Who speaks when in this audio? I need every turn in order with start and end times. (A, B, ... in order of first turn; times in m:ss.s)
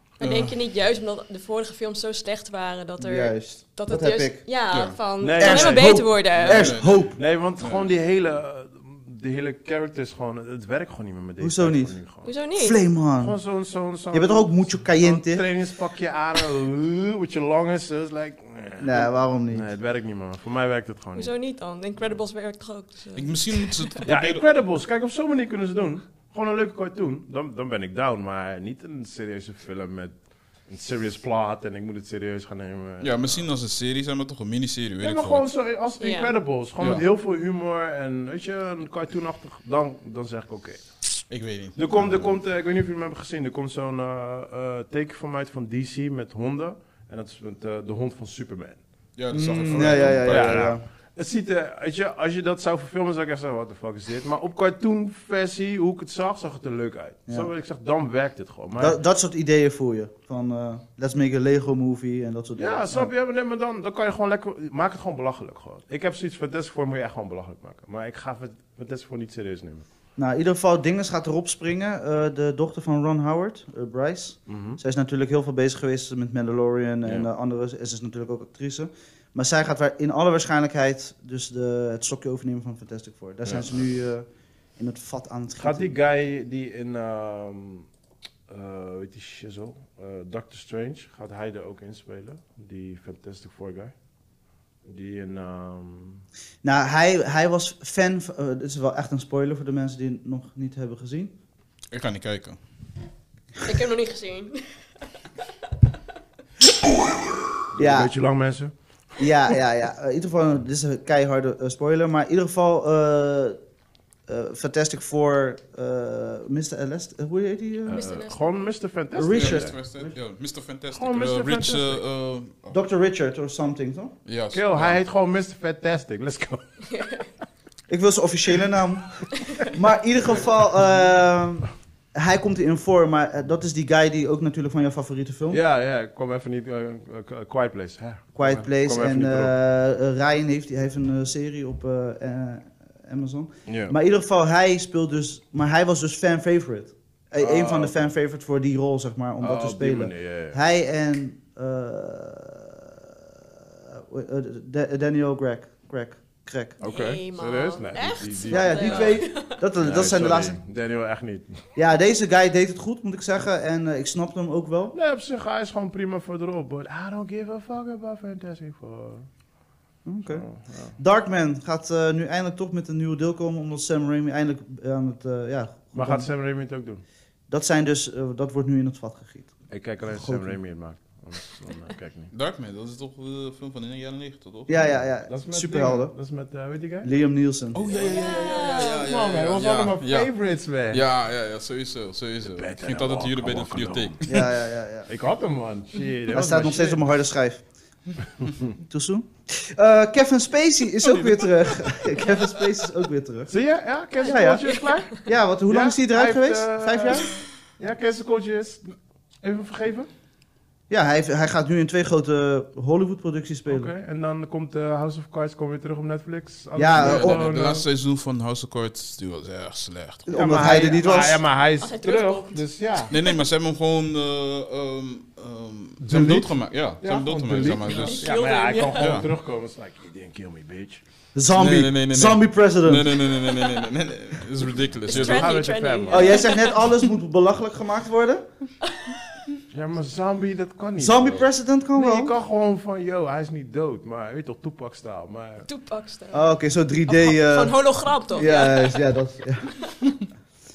0:00.2-0:06.8 A
0:00.2-0:00.6 B
0:03.0-0:04.4 C
0:04.7-0:05.0 B
0:05.2-0:12.3 D
0:05.4-0:07.2 C
0:06.4-0:07.9 B
0:11.4-0:12.0 C
0:12.2-0:12.8 A
0:12.5-0:13.4 C
0:13.2-0:21.3 D
0:14.1-0:15.4 C
0:18.8-0:19.7 C
0:21.1-0:24.0 A
0:23.1-0:24.4 B
0:24.0-0:33.4 D
0:33.0-0:35.4 B
0:35.0-0:40.9 D
0:36.0-0:36.3 A
0:36.8-0:37.0 B
0:41.3-0:42.4 B
0:41.8-0:48.8 D
0:49.2-0:50.6 B
0:49.3-0:50.8 C
0:49.7-0:59.0 D
0:58.8-1:03.1 C
1:02.6-1:09.9 D
1:10.2-1:24.3 C
1:14.5-1:14.8 D
1:23.4-1:23.7 D
1:24.8-1:25.9 C
1:25.6-1:27.9 D
1:28.5-1:33.9 D
1:34.8-1:36.2 D
1:36.6-1:41.3 C
1:41.9-1:42.6 B
1:43.6-1:44.9 A
1:47.7-1:49.2 D
1:47.8-1:48.1 C
1:49.2-1:53.6 C
1:54.3-1:58.1 C
1:57.9-1:59.8 D
1:57.9-1:58.6 A
1:59.1-2:00.1 C
1:59.3-2:02.8 B
2:00.9-2:02.0 D
2:02.7-2:04.1 C
2:04.2-2:05.0 B
2:04.5-2:06.7 D
2:06.9-2:07.2 A
2:07.9-2:15.6 C
2:15.5-2:19.5 D
2:18.4-2:33.1 C
2:23.6-2:23.9 D
2:27.4-2:28.1 D
2:29.4-2:30.6 D
2:33.8-2:36.8 C
2:36.8-2:39.2 D
2:36.8-2:39.6 A
2:38.5-2:40.6 C
2:39.8-2:41.6 D
2:41.8-2:45.0 C
2:44.9-2:49.3 D
2:50.0-2:56.3 C
2:50.3-2:51.0 D
2:55.9-2:57.0 D
2:57.5-3:00.6 C
2:59.7-3:02.3 D
3:02.3-3:05.0 B
3:04.7-3:06.1 C
3:04.8-3:07.1 D
3:07.0-3:07.8 C
3:07.7-3:10.3 B
3:07.9-3:11.0 D
3:08.0-3:09.1 A
3:10.9-3:14.4 B
3:12.5-3:14.4 D
3:14.3-3:15.1 C
3:15.1-3:17.0 D
3:16.3-3:17.6 C
3:18.8-3:23.6 C
3:23.5-3:30.1 D
3:24.2-3:25.2 A
3:24.2-3:27.3 C
3:30.9-3:33.9 C
3:33.7-3:37.8 D
3:36.8-3:37.5 C
3:36.9-3:40.3 B
3:40.3-3:41.4 C
3:40.3-3:43.1 D
3:41.8-3:43.4 A
3:43.1-3:48.3 B
3:46.1-3:46.4 D
3:46.1-3:46.5 C
3:47.0-3:51.0 D
3:47.9-3:49.2 A
3:48.9-3:49.3 B
3:51.4-3:53.3 C
3:51.5-3:55.6 B
3:55.1-3:56.9 A
3:55.1-3:56.5 D
3:56.1-3:58.4 C
3:59.7-4:05.7 D
4:01.0-4:02.3 C
4:05.6-4:06.6 A
4:06.3-4:10.1 C
4:07.1-4:09.0 A